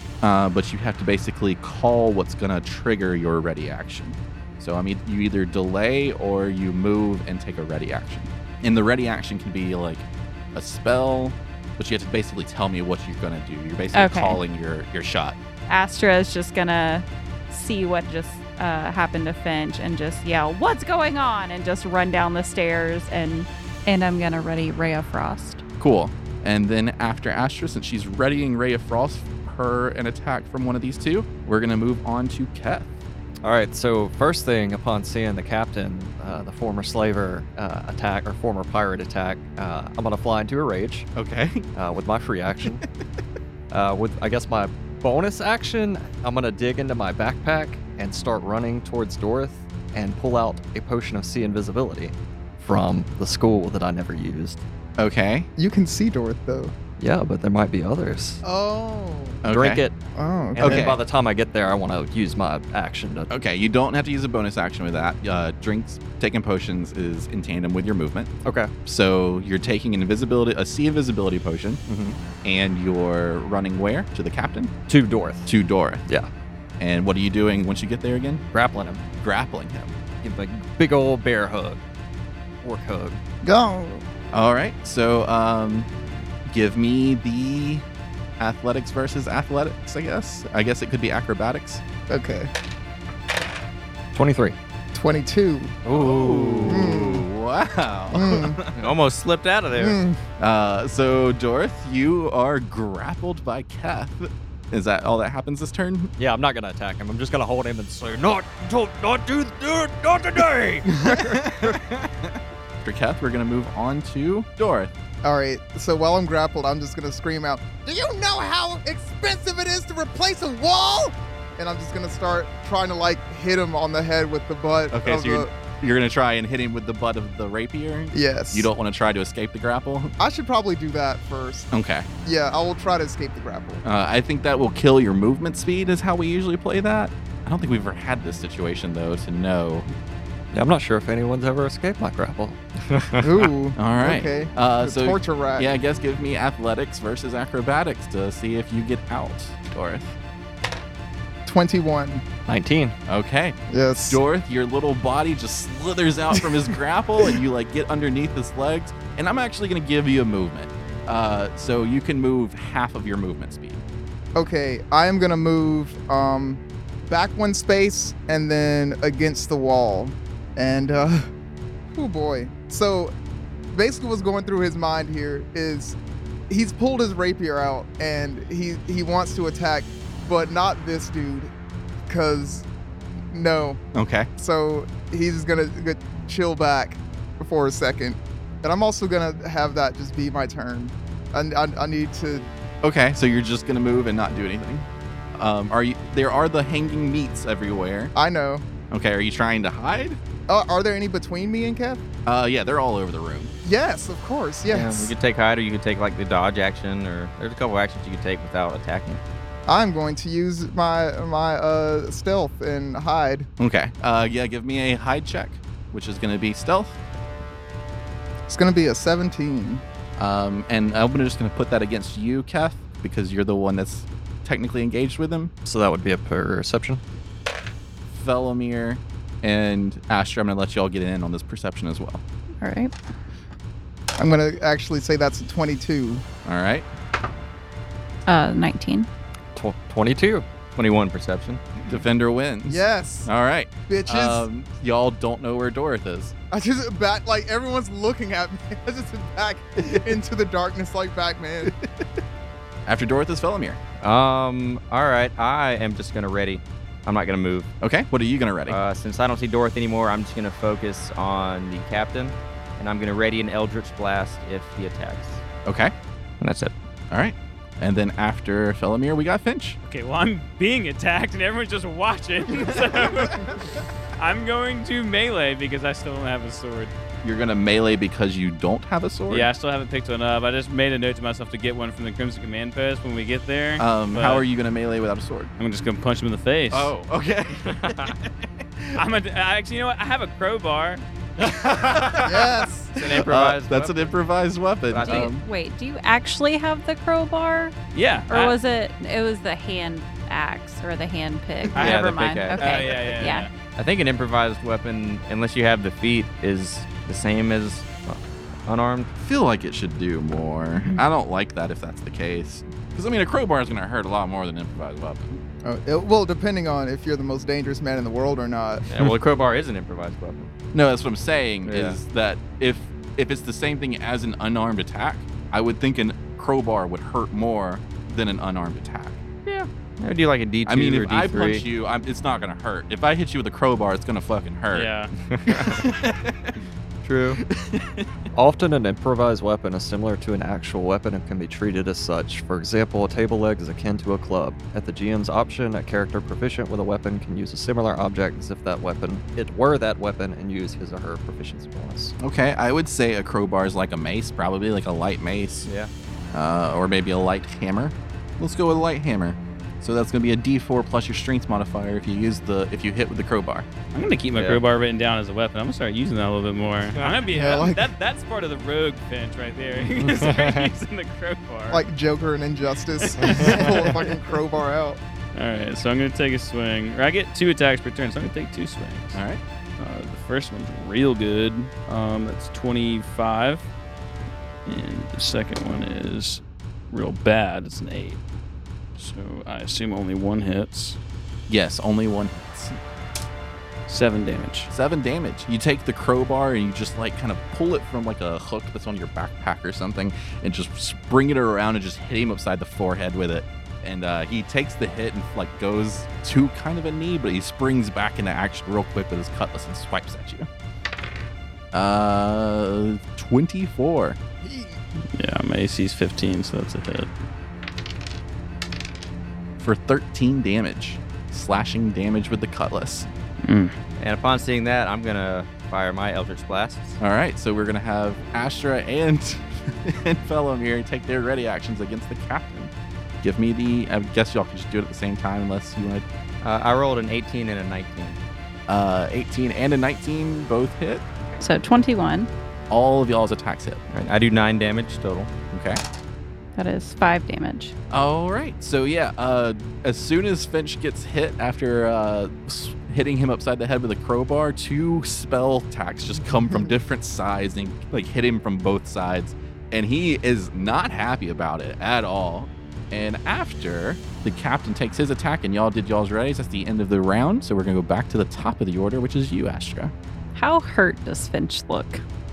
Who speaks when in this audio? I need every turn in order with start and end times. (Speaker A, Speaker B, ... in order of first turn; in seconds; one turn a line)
Speaker A: 0.2-15.4
Speaker B: 13.9-14.4
Speaker B: 15.7-25.6
Speaker A: 25.8-32.9
Speaker C: 33.4-41.1
Speaker A: 41.2-41.6
Speaker C: 41.7-42.8
Speaker C: 43.7-54.6
Speaker A: 55.0-55.5
Speaker D: 55.6-56.7
Speaker C: 57.0-58.4
Speaker D: 58.4-59.4
Speaker A: 59.4-59.9
Speaker C: 59.5-59.9
Speaker D: 60.2-61.0
Speaker C: 60.5-63.3
Speaker A: 60.6-61.0
Speaker A: 63.3-68.3
Speaker C: 68.4-68.7
Speaker A: 68.9-71.8
Speaker C: 71.9-72.2
Speaker A: 72.4-74.7
Speaker C: 74.9-75.5
Speaker A: 75.5-76.0
Speaker A: 76.8-78.4
Speaker C: 78.5-79.0
Speaker A: 79.2-79.9
Speaker C: 80.2-81.8
Speaker C: 82.6-83.2
Speaker D: 83.4-84.0
Speaker A: 84.3-85.9
Speaker A: 86.5-87.8
Speaker A: 88.4-91.8
Speaker D: 92.1-92.5
Speaker C: 94.1-94.6
Speaker D: 94.9-95.8
Speaker C: 95.8-96.9
Speaker A: 95.9-98.9
Speaker D: 96.7-97.2
Speaker D: 98.1-98.6
Speaker E: 98.8-100.0
Speaker D: 99.7-100.2
Speaker A: 100.4-106.1
Speaker C: 106.2-108.2
Speaker F: 108.1-110.9
Speaker A: 111.2-114.9
Speaker D: 115.2-125.5
Speaker A: 124.9-130.2
Speaker D: 128.1-128.7
Speaker D: 130.2-131.7
Speaker A: 131.7-132.1
Speaker D: 132.2-133.8
Speaker A: 133.8-139.9
Speaker C: 140.5-142.6
Speaker E: 142.9-143.2
Speaker D: 143.2-145.7
Speaker A: 143.8-150.2
Speaker D: 151.5-152.2
Speaker C: 152.5-153.0
Speaker A: 153.1-153.6
Speaker D: 153.7-154.2
Speaker A: 154.1-163.8
Speaker D: 164.3-171.3
Speaker D: 171.9-173.1
Speaker D: 173.7-176.0
Speaker D: 176.5-181.5
Speaker D: 182.1-182.7
Speaker D: 183.3-183.8
Speaker A: 183.9-184.3
Speaker D: 184.4-192.5
Speaker A: 192.8-198.1
Speaker D: 198.2-198.7
Speaker A: 198.9-200.2
Speaker D: 200.5-202.0
Speaker A: 202.2-203.5
Speaker D: 203.6-205.1
Speaker E: 204.7-209.2
Speaker D: 209.7-213.5
Speaker A: 213.6-217.0
Speaker D: 218.5-219.8
Speaker A: 220.2-225.5
Speaker C: 225.7-227.0
Speaker A: 228.1-232.2
Speaker B: 232.6-232.9
Speaker D: 234.2-236.2
Speaker A: 236.4-236.9
Speaker B: 238.3-239.1
Speaker C: 239.6-240.4
Speaker E: 240.8-241.6
Speaker A: 241.8-246.3
Speaker D: 242.7-243.3
Speaker D: 243.9-244.5
Speaker D: 246.5-251.7
Speaker A: 252.9-253.8
Speaker E: 254.0-257.7
Speaker A: 257.8-258.8
Speaker E: 258.7-265.4
Speaker A: 265.6-265.9
Speaker E: 266.4-266.7
Speaker A: 267.1-269.8
Speaker G: 269.9-276.9
Speaker A: 277.2-279.5
Speaker G: 279.3-284.4
Speaker A: 283.8-285.5
Speaker G: 285.6-286.9
Speaker A: 286.7-289.0
Speaker E: 287.6-288.1
Speaker G: 289.0-291.0
Speaker A: 291.4-295.4
Speaker D: 292.2-292.9
Speaker E: 292.9-294.2
Speaker E: 294.9-295.3
Speaker B: 295.0-297.8
Speaker G: 297.9-298.6
Speaker B: 298.3-303.5
Speaker G: 301.8-302.1
Speaker E: 301.8-309.1
Speaker G: 302.6-303.5
Speaker A: 309.2-315.4
Speaker D: 315.6-318.8
Speaker E: 318.9-320.5
Speaker A: 320.7-329.2
Speaker E: 321.6-322.0
Speaker E: 329.5-331.6
Speaker A: 330.7-334.9
Speaker G: 334.7-335.1
Speaker E: 335.2-335.8
Speaker A: 335.5-336.6
Speaker E: 337.0-337.4
Speaker A: 337.4-338.1
Speaker C: 338.3-352.2
Speaker A: 352.2-355.7
Speaker E: 355.6-355.9
Speaker A: 356.3-363.7
Speaker G: 363.9-371.8
Speaker E: 364.4-364.6
Speaker D: 367.3-367.9
Speaker D: 371.7-375.0
Speaker G: 373.0-374.0
Speaker G: 375.4-379.2
Speaker A: 379.1-379.4
Speaker G: 379.8-383.6
Speaker G: 384.7-388.2
Speaker G: 389.0-391.0
Speaker A: 391.5-392.8
Speaker G: 393.9-394.7
Speaker A: 394.7-410.5
Speaker A: 411.7-414.2
Speaker D: 414.4-414.8
Speaker G: 415.1-417.1
Speaker A: 419.6-423.1
Speaker G: 423.4-423.7
Speaker E: 424.0-427.0
Speaker A: 427.0-436.1
Speaker E: 436.4-438.2
Speaker A: 438.7-441.0
Speaker B: 441.4-442.3
Speaker A: 442.7-443.8
Speaker E: 443.9-445.3
Speaker A: 445.5-445.8
Speaker B: 446.6-447.7
Speaker A: 447.9-469.9
Speaker B: 470.4-472.0